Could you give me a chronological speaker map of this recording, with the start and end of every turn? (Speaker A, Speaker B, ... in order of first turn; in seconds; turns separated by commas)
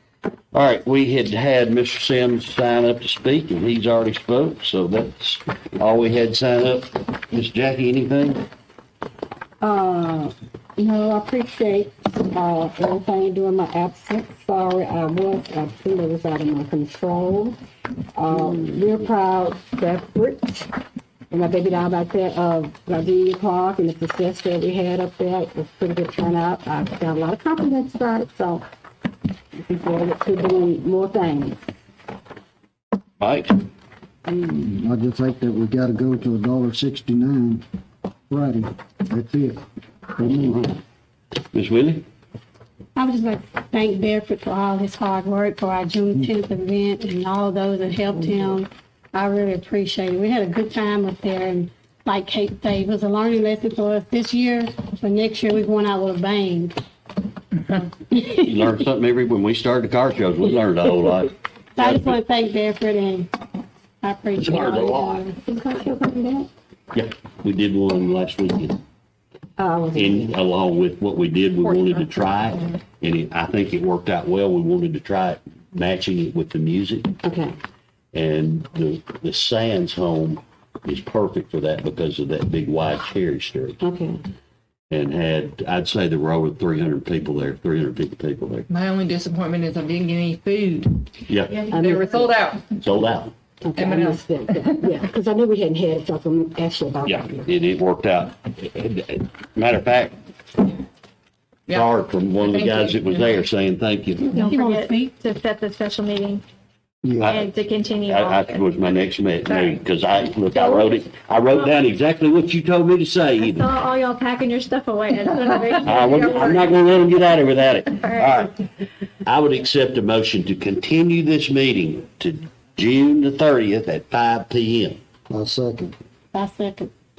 Speaker A: 0.5-8.4, Speaker B: 9.6-17.6, Speaker B: 18.1-20.7, Speaker B: 21.3-28.6, Speaker B: 29.6-31.6, Speaker A: 33.2-33.6, Speaker B: 34.3-34.6, Speaker C: 34.6-37.6, Speaker C: 38.3-39.6, Speaker C: 40.2-40.6, Speaker A: 40.3-40.7, Speaker A: 41.5-42.0, Speaker D: 43.0-56.8, Speaker A: 58.4-62.1, Speaker D: 61.8-63.3, Speaker D: 64.0-65.4, Speaker A: 64.4-65.3, Speaker B: 65.4-66.5, Speaker A: 66.9-68.8, Speaker B: 69.6-70.3, Speaker A: 69.9-77.2, Speaker B: 77.2-77.5, Speaker A: 78.1-83.8, Speaker B: 83.8-84.2, Speaker A: 84.9-88.7, Speaker E: 88.7-92.8, Speaker A: 91.3-91.5, Speaker B: 91.7-92.4, Speaker A: 92.8-93.3, Speaker B: 93.6-97.5, Speaker E: 93.8-94.2, Speaker A: 97.0-100.1, Speaker A: 101.7-104.3, Speaker E: 102.4-103.2, Speaker D: 104.3-105.1, Speaker F: 104.3-106.4, Speaker C: 107.0-107.3, Speaker A: 107.2-107.5, Speaker F: 107.2-108.6, Speaker A: 108.1-113.7, Speaker F: 109.5-109.8, Speaker F: 110.5-110.9, Speaker F: 113.4-116.7, Speaker A: 115.8-118.5, Speaker F: 118.0-118.4, Speaker A: 119.2-125.0, Speaker C: 125.3-125.9, Speaker D: 126.3-126.9